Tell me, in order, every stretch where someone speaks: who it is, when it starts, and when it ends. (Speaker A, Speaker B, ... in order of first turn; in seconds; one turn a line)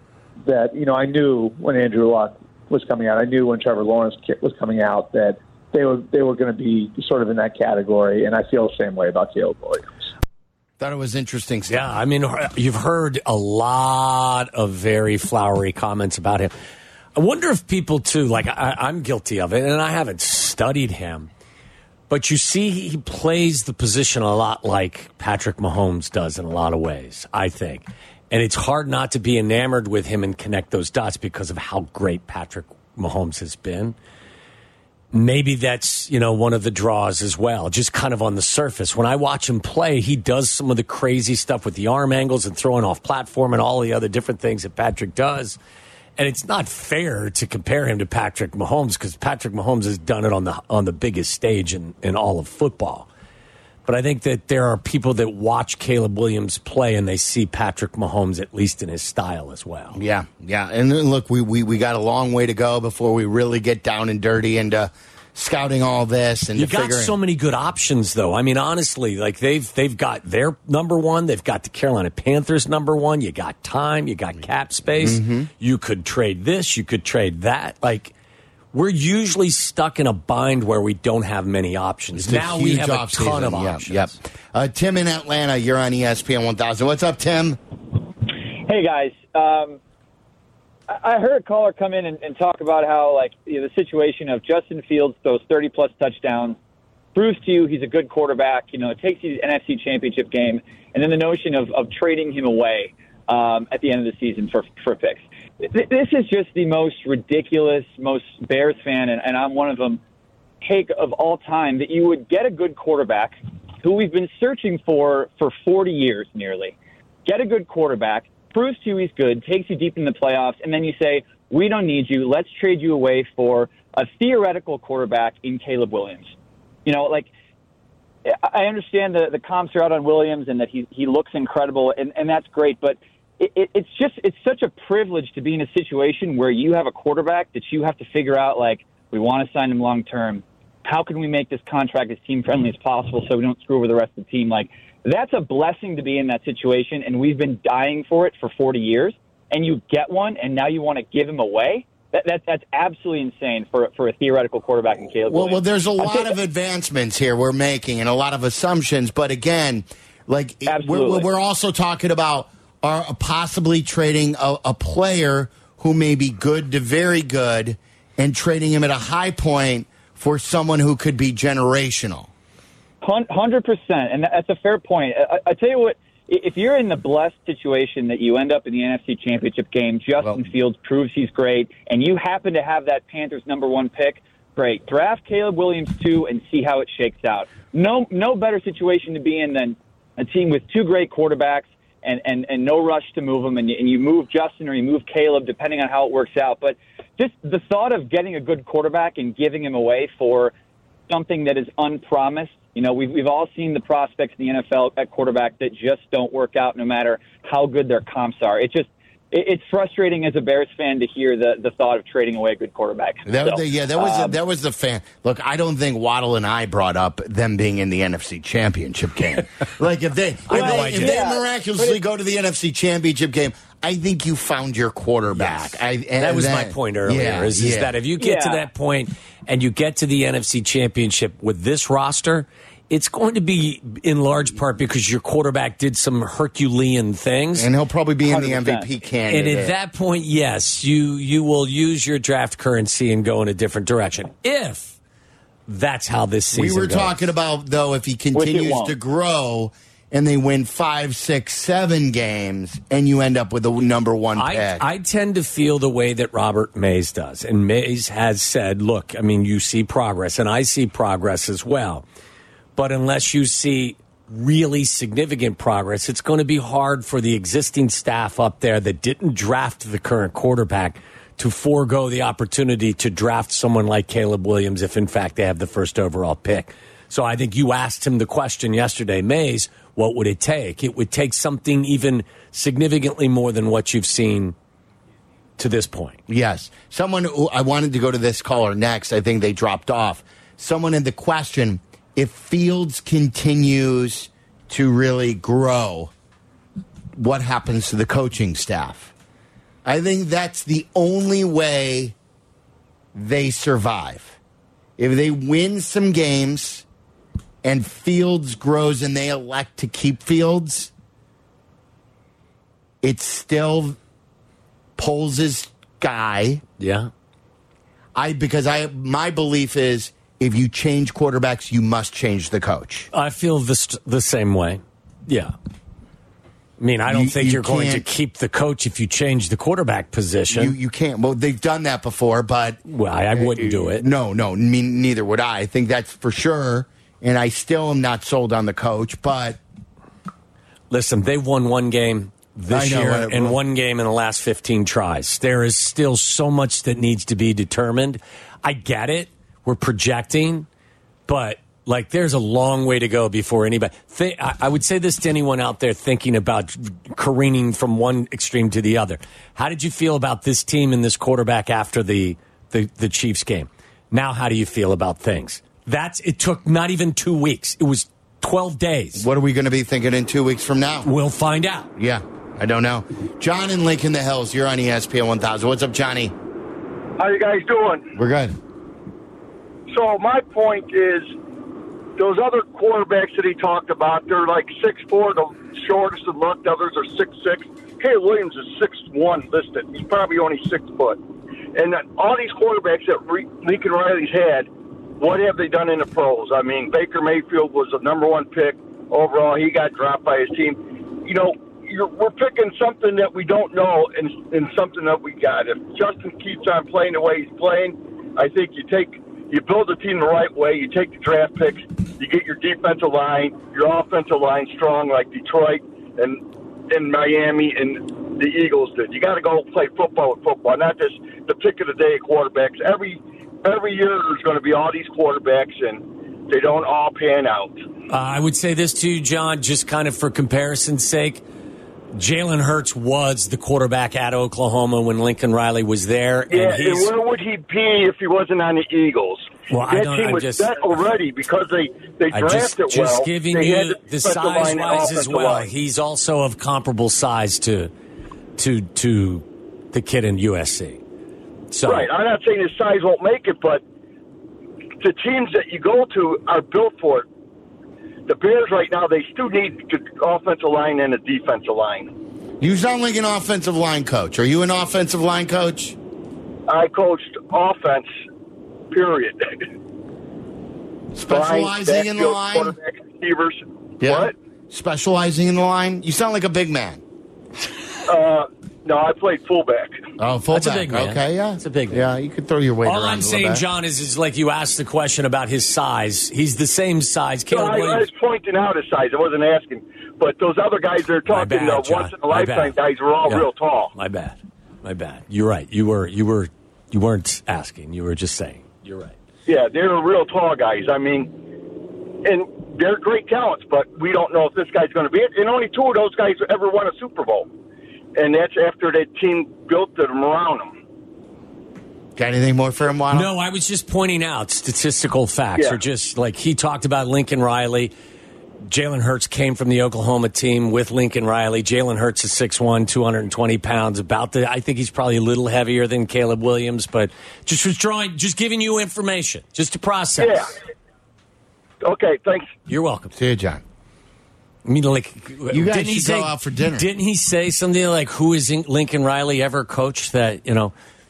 Speaker A: 0.5-10.1
Speaker B: 10.8-11.8
Speaker C: 11.7-16.5
Speaker C: 17.2-21.3
Speaker C: 22.1-34.0
Speaker C: 35.1-45.6
Speaker C: 46.2-53.1
Speaker C: 53.9-60.0
Speaker B: 59.9-67.2
Speaker C: 66.6-78.1
Speaker B: 75.0-75.5
Speaker C: 78.7-84.2
Speaker B: 82.2-87.6
Speaker D: 88.7-89.8
Speaker D: 90.9-96.6
Speaker D: 97.2-110.0
Speaker D: 110.6-126.3
Speaker D: 126.9-127.3
Speaker D: 128.3-156.3
Speaker B: 155.3-172.3
Speaker D: 160.7-161.3
Speaker D: 173.0-200.5
Speaker D: 201.1-214.4
Speaker B: 213.3-227.9
Speaker C: 220.5-221.2
Speaker D: 220.5-221.9
Speaker C: 225.3-237.7
Speaker D: 228.2-228.7
Speaker B: 237.6-239.7
Speaker D: 238.2-238.9
Speaker C: 239.3-245.0
Speaker C: 245.7-247.2
Speaker B: 246.5-254.8
Speaker D: 248.3-248.9
Speaker C: 254.4-262.1
Speaker C: 262.8-284.6
Speaker C: 285.6-286.2
Speaker B: 286.3-296.1
Speaker B: 297.2-299.1
Speaker B: 299.9-302.1
Speaker B: 303.1-304.4
Speaker B: 305.0-306.9
Speaker B: 307.6-310.9
Speaker B: 313.0-314.0
Speaker B: 315.0-316.6
Speaker C: 316.8-317.1
Speaker B: 318.2-323.1
Speaker C: 323.1-325.5
Speaker C: 326.8-330.7
Speaker B: 327.1-328.1
Speaker B: 330.5-339.6
Speaker C: 332.9-334.0
Speaker C: 340.9-350.7
Speaker B: 342.7-343.6
Speaker C: 351.3-369.2
Speaker B: 369.2-371.1
Speaker C: 371.0-371.9
Speaker B: 372.0-376.4
Speaker E: 377.2-378.1
Speaker B: 378.1-378.6
Speaker E: 379.9-381.3
Speaker E: 382.2-391.2
Speaker E: 391.7-427.8
Speaker C: 428.1-431.4
Speaker C: 432.1-437.1
Speaker E: 436.5-445.7
Speaker C: 439.7-440.8
Speaker C: 442.3-447.9
Speaker C: 448.6-451.0
Speaker C: 451.7-452.1
Speaker E: 451.8-453.8
Speaker E: 455.0-457.3
Speaker E: 458.3-462.1
Speaker B: 462.6-466.0
Speaker E: 466.7-468.1
Speaker E: 468.9-469.7
Speaker B: 471.1-472.8
Speaker E: 471.3-474.3
Speaker B: 474.0-477.0
Speaker E: 478.1-480.0
Speaker B: 480.2-483.6
Speaker C: 480.5-482.1
Speaker C: 482.9-488.1
Speaker E: 487.5-493.9
Speaker C: 491.3-499.1
Speaker E: 499.5-501.3
Speaker E: 502.2-507.5
Speaker E: 508.1-510.7
Speaker B: 512.2-513.3
Speaker C: 513.1-517.9
Speaker E: 515.5-515.8
Speaker C: 518.7-530.5
Speaker E: 530.2-530.5
Speaker E: 531.8-532.6
Speaker C: 532.7-533.1
Speaker B: 533.1-533.6
Speaker C: 534.6-540.7
Speaker B: 535.5-536.9